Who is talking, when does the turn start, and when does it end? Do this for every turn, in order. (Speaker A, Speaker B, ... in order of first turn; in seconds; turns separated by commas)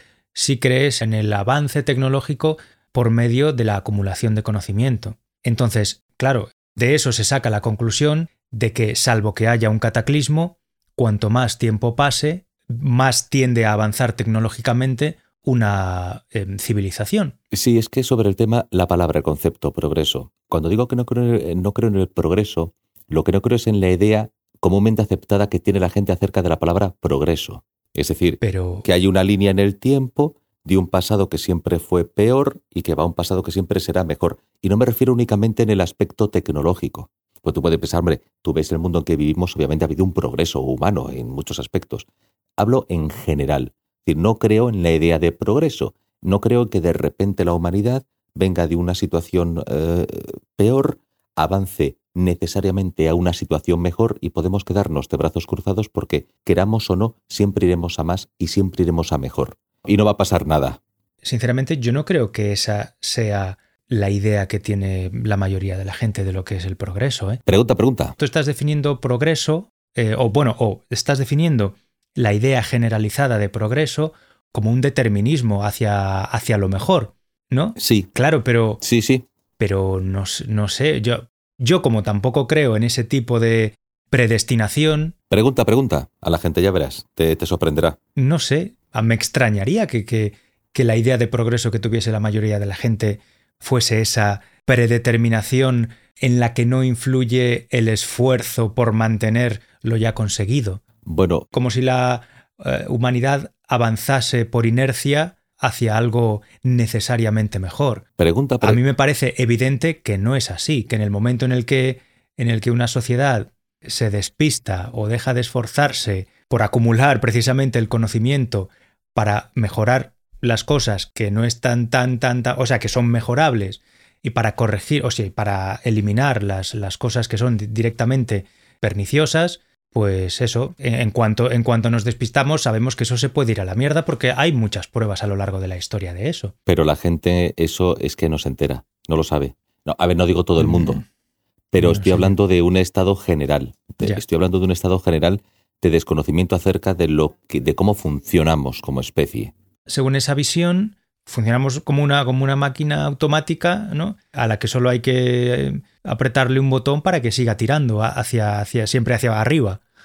Speaker A: 0.3-17.3, Speaker B: 17.5-42.1, Speaker A: 28.4-28.9, Speaker B: 42.6-60.8, Speaker A: 61.2-67.4, Speaker B: 67.5-68.2, Speaker A: 68.2-78.8, Speaker B: 77.8-78.1, Speaker B: 78.8-79.2, Speaker A: 79.6-85.1, Speaker B: 85.3-88.0, Speaker A: 88.2-100.8, Speaker B: 101.0-101.5, Speaker A: 101.5-108.0, Speaker B: 108.2-108.8, Speaker A: 108.6-136.5, Speaker B: 136.7-141.0, Speaker A: 140.6-141.0, Speaker B: 141.7-149.5, Speaker A: 141.8-142.3, Speaker A: 149.9-159.8